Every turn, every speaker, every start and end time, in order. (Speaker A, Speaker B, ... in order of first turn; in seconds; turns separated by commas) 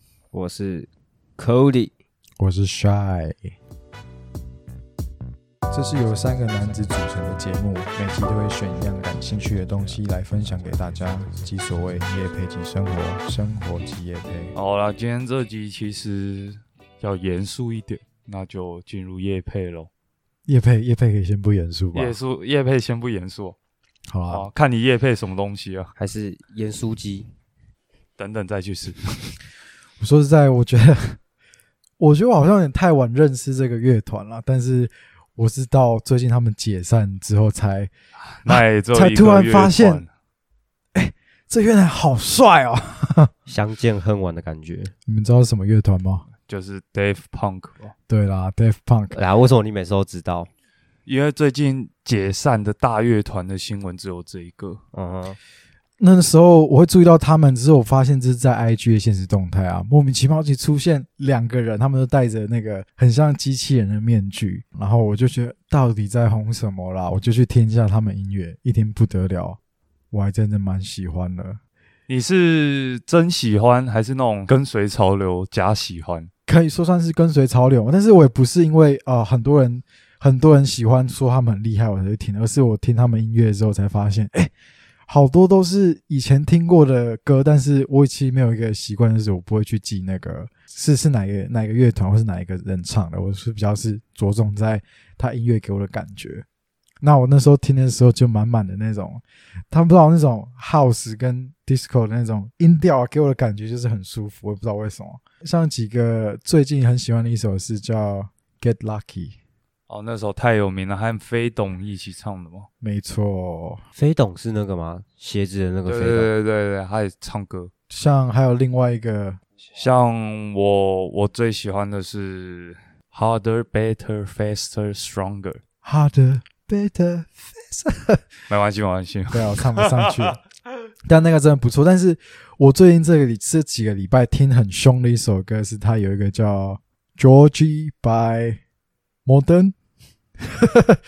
Speaker A: 0.3-1.9, Speaker B: 2.4-3.5, Speaker B: 5.7-14.5, Speaker C: 14.5-19.9, Speaker B: 20.5-22.2, Speaker C: 21.9-23.6, Speaker B: 24.1-24.5, Speaker C: 24.3-25.9, Speaker A: 26.0-27.3, Speaker C: 28.2-29.4, Speaker B: 30.0-31.2, Speaker B: 32.0-37.9, Speaker C: 38.3-40.1, Speaker B: 38.5-40.0, Speaker B: 40.9-43.3, Speaker A: 43.5-44.9, Speaker B: 45.1-46.3, Speaker C: 46.5-47.9, Speaker B: 48.1-49.2, Speaker A: 49.1-50.5, Speaker C: 51.1-54.8, Speaker A: 54.9-55.4, Speaker B: 56.0-69.6, Speaker B: 70.1-71.6, Speaker C: 72.1-76.3, Speaker B: 76.5-84.5, Speaker B: 85.1-96.5, Speaker B: 97.0-109.4, Speaker C: 109.9-112.7, Speaker B: 112.8-113.8, Speaker A: 114.0-116.3, Speaker C: 115.9-117.7, Speaker B: 117.9-119.4, Speaker C: 119.7-125.6, Speaker B: 125.8-128.3, Speaker C: 128.5-130.3, Speaker B: 129.3-130.4, Speaker B: 131.1-138.6, Speaker B: 139.3-139.8, Speaker B: 140.4-141.0